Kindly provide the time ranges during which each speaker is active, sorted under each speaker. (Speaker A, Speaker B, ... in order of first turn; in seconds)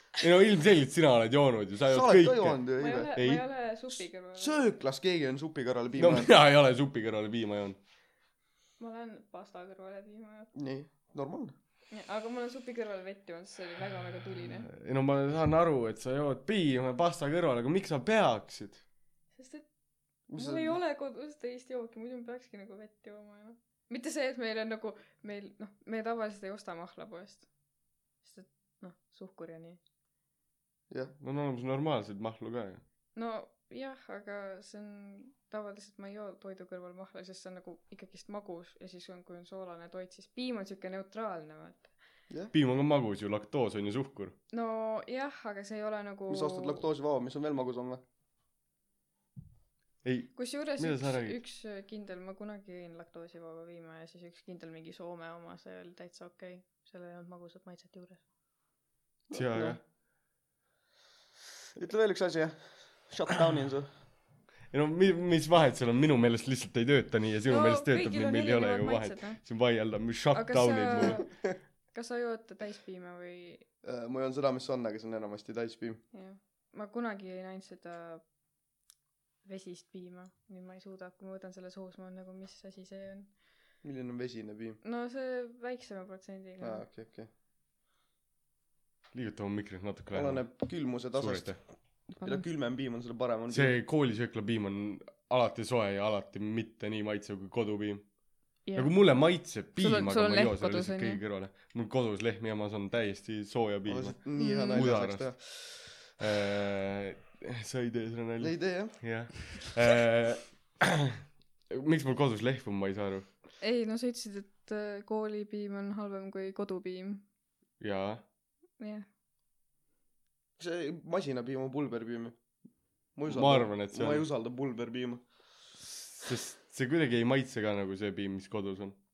Speaker A: 0.2-3.4, 6.0-7.8, 14.7-18.8, 31.2-32.8, 42.5-44.4, 50.0-51.4, 59.3-59.8, 64.7-71.2, 89.1-91.6, 93.5-111.0, 111.7-113.3, 117.8-118.2, 123.3-124.3, 126.0-129.0
Speaker B: 1.9-3.1, 4.3-6.3, 10.6-11.5, 20.3-20.8, 46.3-48.0, 59.3-59.8, 61.8-63.9, 73.8-76.0, 83.8-84.8, 86.6-87.3, 90.1-93.8, 103.9-105.8, 108.4-109.5, 120.6-122.4, 123.2-125.3
Speaker C: 2.8-4.7, 8.8-10.5, 11.9-14.7, 19.3-19.7, 20.3-27.5, 28.2-29.8, 33.1-41.9, 44.5-46.8, 50.4-58.2, 67.5-69.4, 70.3-73.7, 76.1-78.2, 79.4-83.3, 84.8-86.9, 92.1-92.5, 98.7-101.2, 104.4-104.9, 113.6-117.2, 118.8-119.1